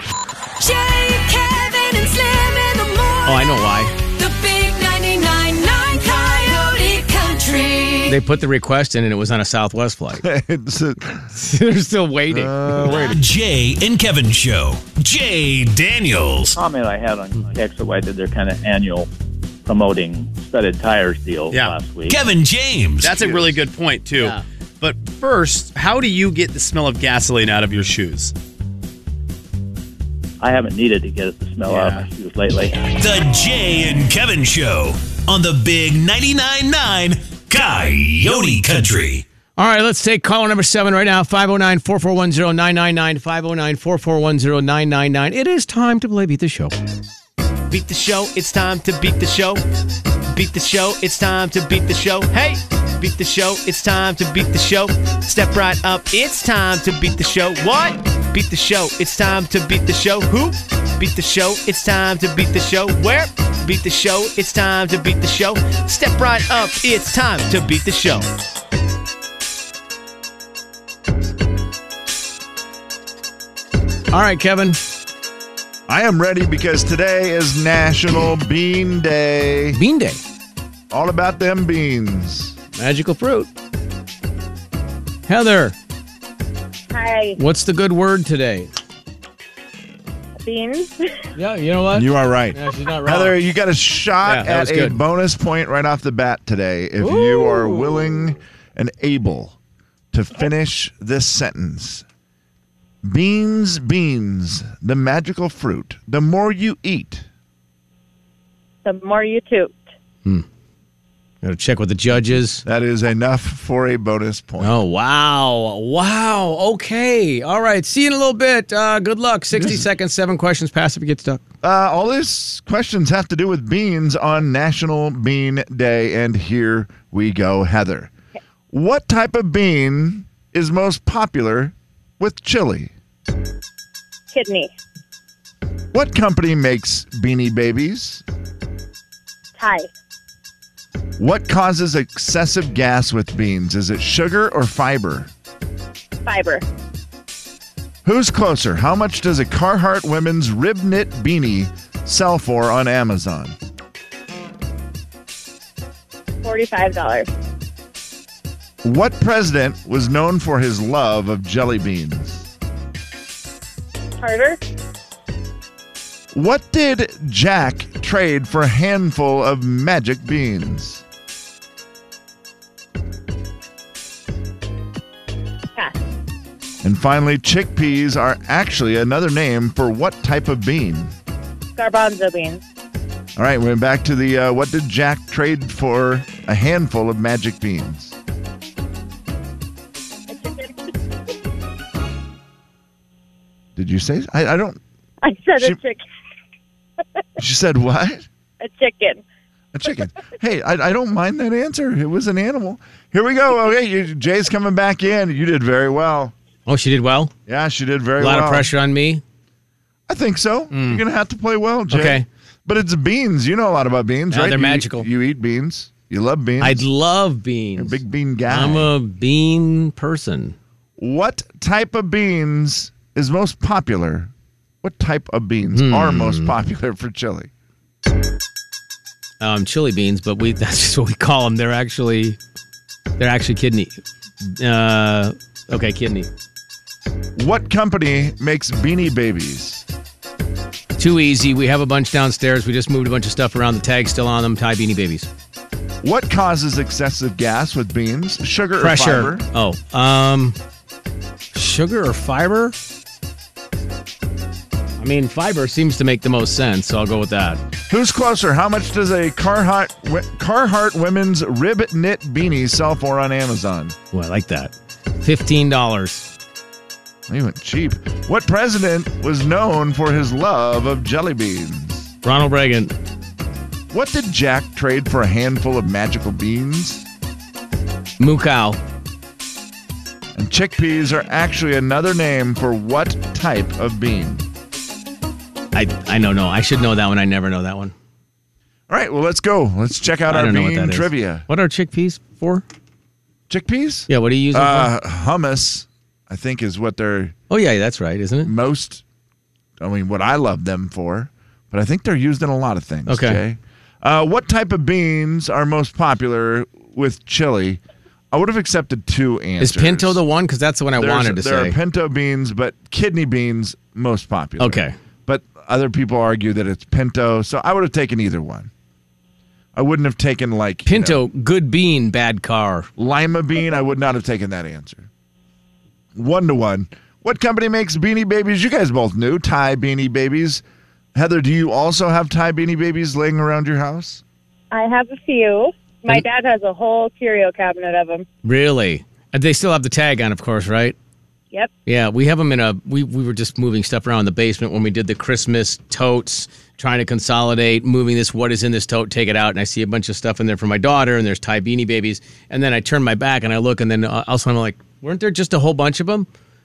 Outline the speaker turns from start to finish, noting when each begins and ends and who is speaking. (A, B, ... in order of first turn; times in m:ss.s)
0:00.6-0:08.2 A
0:03.2-0:04.0 B
0:08.1-0:10.2 B
0:10.2-0:11.3 C
0:11.3-0:13.2 B
0:12.3-0:13.2 C
0:13.0-0:16.6 D
0:16.6-0:19.1 E
0:19.6-0:22.2 E
0:21.5-0:21.8 F
0:22.1-0:23.3 D
0:23.0-0:28.4 F
0:30.4-0:32.8 E
0:31.7-0:32.0 B
0:32.9-0:39.2 D
0:39.6-0:46.8 B
0:47.7-0:49.6 G
0:50.3-1:08.3 G
1:14.1-1:14.8 B
1:15.9-1:19.8 C
1:19.7-1:20.2 B
1:20.9-1:22.6 C
1:22.8-1:23.5 B
1:25.3-1:25.8 B
1:26.9-1:27.4 H
1:27.4-1:28.7 B
1:30.4-1:31.0 H
1:31.4-1:33.4 B
1:31.9-1:39.6 C
1:34.2-1:35.0 B
1:37.0-1:38.4 B
1:40.1-1:42.0 C
1:43.0-1:47.3 C
1:48.8-1:49.8 H
1:51.4-1:52.6 B
1:52.6-1:54.8 C
1:54.6-2:01.4 B
1:59.5-1:59.8 C
2:01.6-2:08.1 C
2:08.7-2:12.9 C
2:14.3-2:14.7 H
2:15.9-2:18.2 C
2:19.6-2:19.9 H
2:21.2-2:25.3 C
2:26.2-2:26.6 H
2:28.0-2:33.6 C
2:36.4-2:37.3 H
2:38.8-2:42.5 C
2:44.2-2:44.6 H
2:46.3-2:51.0 C
2:56.8-3:01.1 C
3:01.8-3:02.6 H
3:03.4-3:08.2 C
3:10.3-3:10.8 H
3:13.8-3:14.8 C
3:15.2-3:16.0 H
3:17.4-3:18.3 C
3:18.6-3:19.2 H
3:19.7-3:26.3 C
3:26.7-3:27.3 B
3:27.5-3:28.7 C
3:28.2-3:29.2 B
3:30.1-3:36.8 C
3:30.7-3:31.0 B
3:31.9-3:32.3 B
3:34.3-3:35.1 B
3:36.6-3:40.6 B
3:37.8-3:38.9 C
3:41.0-3:47.5 C
3:45.7-3:46.5 B
3:49.4-3:52.4 B
3:53.2-3:56.3 B
3:57.4-3:59.8 C
4:01.0-4:05.3 B
4:06.0-4:09.5 C
4:08.8-4:10.6 B
4:11.5-4:12.8 B
4:15.0-4:17.6 B
4:17.9-4:24.0 C
4:24.1-4:26.3 B
4:27.3-4:32.1 C
4:32.2-4:32.9 B
4:33.9-4:37.1 C
4:38.2-4:38.8 B
4:40.4-4:44.4 C
4:45.7-4:47.9 B
4:48.9-4:51.5 C
4:50.3-4:52.6 B
4:53.5-4:57.4 C
4:54.1-4:54.9 B
4:57.5-4:58.5 B
4:58.4-4:59.0 C
4:59.8-5:07.8 C
5:03.1-5:03.4 B
5:08.3-5:10.2 C
5:09.6-5:11.8 B
5:11.0-5:18.7 C
5:14.6-5:15.0 B
5:19.8-5:21.2 C
5:20.9-5:22.9 B
5:23.0-5:25.1 C
5:26.2-5:30.6 C
5:31.2-5:34.2 C
5:34.7-5:38.3 H
5:38.4-5:41.0 B
5:41.9-5:56.3 B